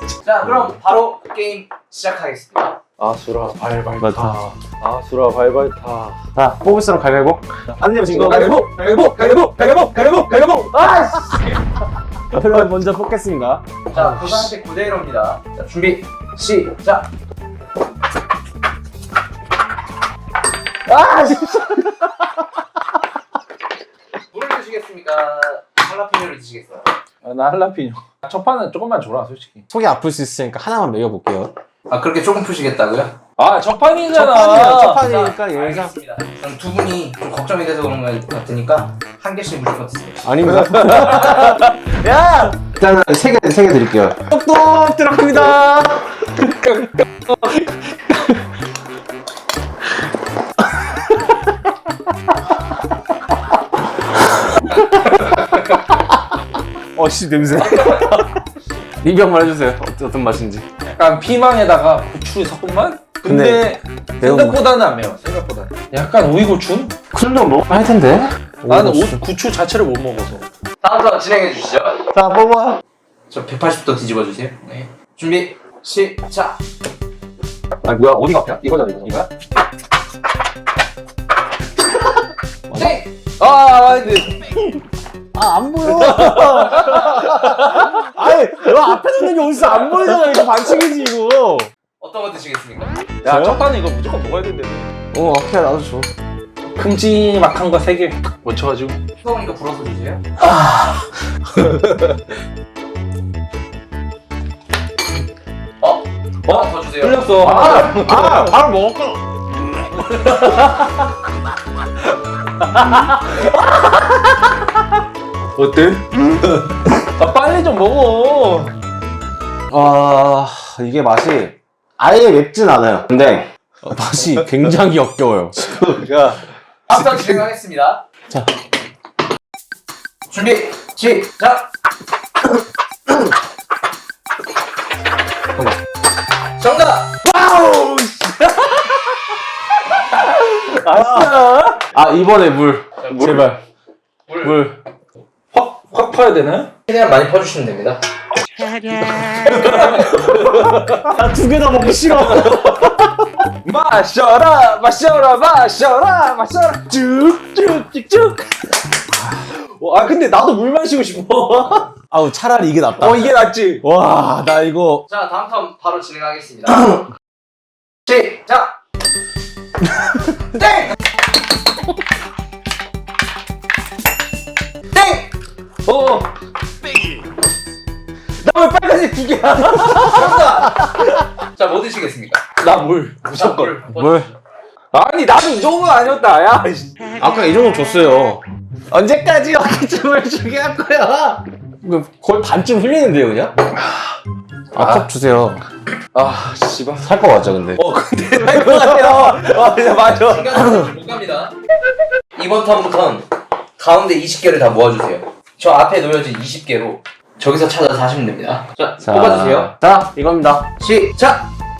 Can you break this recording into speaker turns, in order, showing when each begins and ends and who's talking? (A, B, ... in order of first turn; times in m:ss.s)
0:00.2-0:02.8 A
0:03.0-0:06.2 B
0:04.0-0:04.4 C
0:06.3-0:09.3 C
0:08.0-0:11.5 B
0:12.3-0:14.5 C
0:12.3-0:12.6 B
0:13.9-0:17.1 A
0:20.9-0:22.0 B
0:24.3-0:26.8 A
0:27.2-0:29.6 B
0:29.7-0:31.5 C
0:31.9-0:33.2 A
0:33.4-0:35.0 B
0:34.1-0:35.9 C
0:34.9-0:40.2 A
0:40.2-0:41.6 C
0:40.4-0:42.6 B
0:42.6-0:46.2 C
0:46.2-0:47.6 B
0:55.2-0:55.5 A
0:56.9-0:58.3 C
0:59.0-1:00.7 C
1:00.8-1:06.9 B
1:03.2-1:03.7 C
1:04.2-1:04.6 C
1:07.1-1:09.2 C
1:08.7-1:10.4 B
1:10.8-1:12.0 A
1:12.1-1:12.8 C
1:13.3-1:16.6 A
1:17.8-1:19.2 C
1:18.2-1:19.3 B
1:22.7-1:23.0 C
1:22.8-1:23.1 A
1:23.4-1:24.7 B
1:25.3-1:31.7 C
1:25.9-1:28.1 B
1:32.0-1:33.1 A
1:33.2-1:34.9 B
1:33.2-1:33.6 C
1:35.1-1:36.1 C
1:36.8-1:39.0 B
1:39.2-1:40.2 A
1:41.6-1:42.1 B
1:45.8-1:47.3 A
1:46.4-1:48.5 B
1:47.4-1:49.2 C
1:50.0-1:50.9 B
1:52.6-1:54.2 B
1:55.6-1:58.8 B
1:59.7-2:06.1 C
2:06.0-2:06.4 B
2:06.9-2:08.0 A
2:10.3-2:11.7 A
2:16.6-2:17.2 A
2:17.2-2:18.9 B
2:19.9-2:21.8 B
2:20.9-2:21.3 C
2:21.9-2:23.6 C
2:23.0-2:23.4 A
2:24.3-2:24.6 A
2:24.4-2:24.8 C
2:25.5-2:26.7 B
2:26.9-2:28.0 A
2:28.8-2:31.1 B
2:30.7-2:33.4 C
2:32.1-2:32.9 B
2:33.6-2:38.4 B
2:39.3-2:41.9 B
2:42.1-2:45.1 C
2:43.0-2:43.8 B
2:45.1-2:47.0 A
2:48.1-2:48.8 A
2:50.5-2:51.0 A
2:54.9-2:55.3 A
2:55.8-2:56.3 B
2:58.4-3:01.0 B
3:00.0-3:02.4 A
3:02.6-3:03.7 B
3:03.3-3:04.4 A
3:03.9-3:04.3 C
3:04.9-3:06.9 B
3:07.2-3:13.5 C
3:14.7-3:15.6 C
3:14.8-3:15.0 B
3:16.1-3:17.1 B
3:17.0-3:17.8 C
3:17.8-3:20.8 B
3:18.4-3:19.3 C
3:20.2-3:21.5 A
3:22.3-3:23.2 A
3:23.8-3:29.7 A
3:29.0-3:30.7 C
3:30.8-3:31.5 A